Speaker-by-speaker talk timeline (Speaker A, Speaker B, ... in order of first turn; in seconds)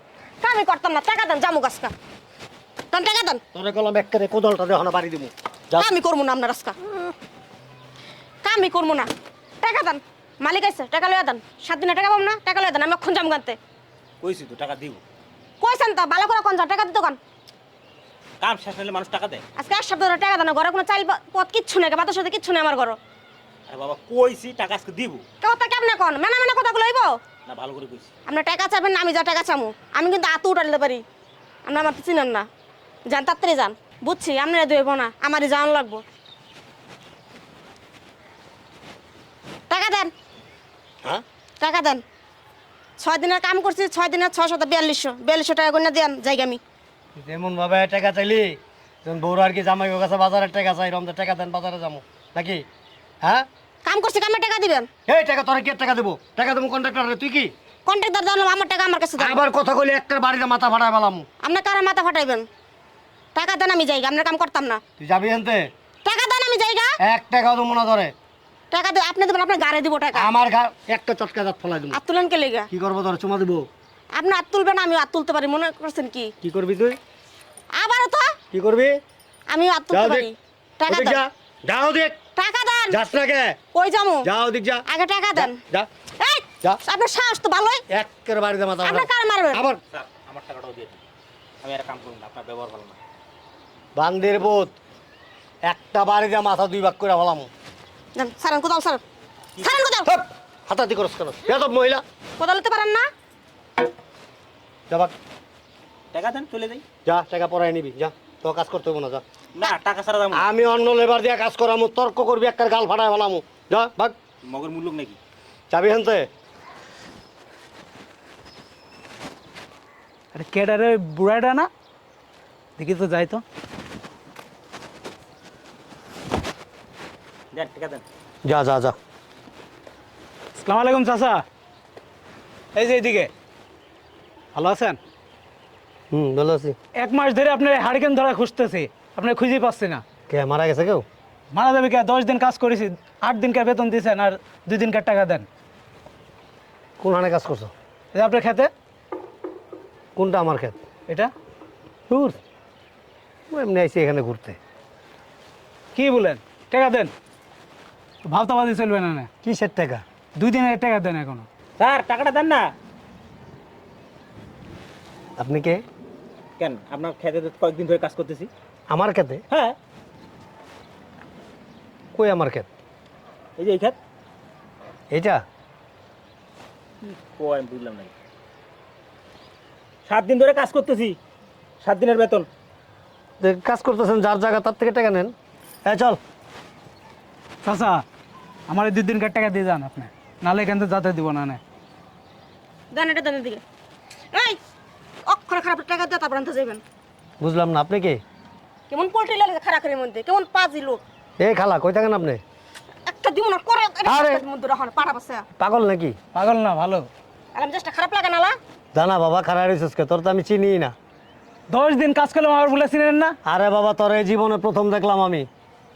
Speaker A: 0.4-1.9, 2.9-3.4, 5.8-7.1, 8.4-9.1, 9.6-13.6, 15.6-17.2, 19.6-23.0, 25.4-27.2, 28.2-31.0, 31.6-32.5, 33.1-36.0, 39.7-40.1, 41.6-42.0, 43.0-46.6, 53.8-54.9, 57.8-59.4, 61.4-62.5, 63.3-64.8, 66.0-67.0, 68.7-70.3, 71.9-72.7, 74.1-76.3, 77.7-78.4, 79.5-81.2, 82.3-83.0, 83.7-84.2, 84.9-85.6, 86.2-87.8, 88.8-89.6, 98.1-99.0, 99.6-100.1, 102.4-103.1, 192.9-193.6, 194.3-194.6, 195.2-196.8, 198.9-201.0, 203.1-205.4, 207.5-208.6
Speaker B: 3.5-5.9, 47.1-52.6, 55.0-57.5, 59.2-61.3, 65.0-65.7, 67.0-68.1, 70.1-72.0, 72.7-73.7, 76.4-77.0, 78.5-79.0, 79.9-80.3, 80.9-82.2, 82.9-83.6, 84.2-85.9, 87.9-89.8, 93.9-94.7, 95.6-97.5, 100.0-102.0, 104.9-105.1, 107.0-109.2, 110.3-114.2, 115.7-116.3, 128.4-128.9, 136.1-136.8, 140.3-141.1, 147.0-147.7, 150.2-150.7, 152.1-152.4, 153.5-154.6, 159.4-160.0, 165.4-165.8, 168.9-169.4, 172.1-172.7, 175.1-175.4, 183.4-185.3, 185.8-186.2, 197.4-198.2, 201.4-202.4, 204.1-204.4, 205.6-206.2, 208.9-210.9, 213.4-215.5
Speaker C: 14.2-15.0, 18.4-19.4, 23.7-25.2, 27.4-28.1, 89.9-91.0, 91.6-93.0, 99.6-99.8, 106.1-106.8, 109.5-110.5, 114.4-115.2, 127.5-128.0, 161.8-162.7, 166.6-168.5, 169.5-169.8, 173.6-174.0, 177.1-178.1, 180.1-181.2, 181.8-182.5
Speaker D: 120.3-121.7, 122.8-123.4, 130.5-131.4, 132.7-133.3, 134.5-135.0, 136.9-140.0, 141.5-145.5, 148.1-148.7, 155.9-157.1, 158.2-159.3, 160.3-161.5, 187.6-188.0, 188.7-191.6, 206.3-207.1, 211.7-213.3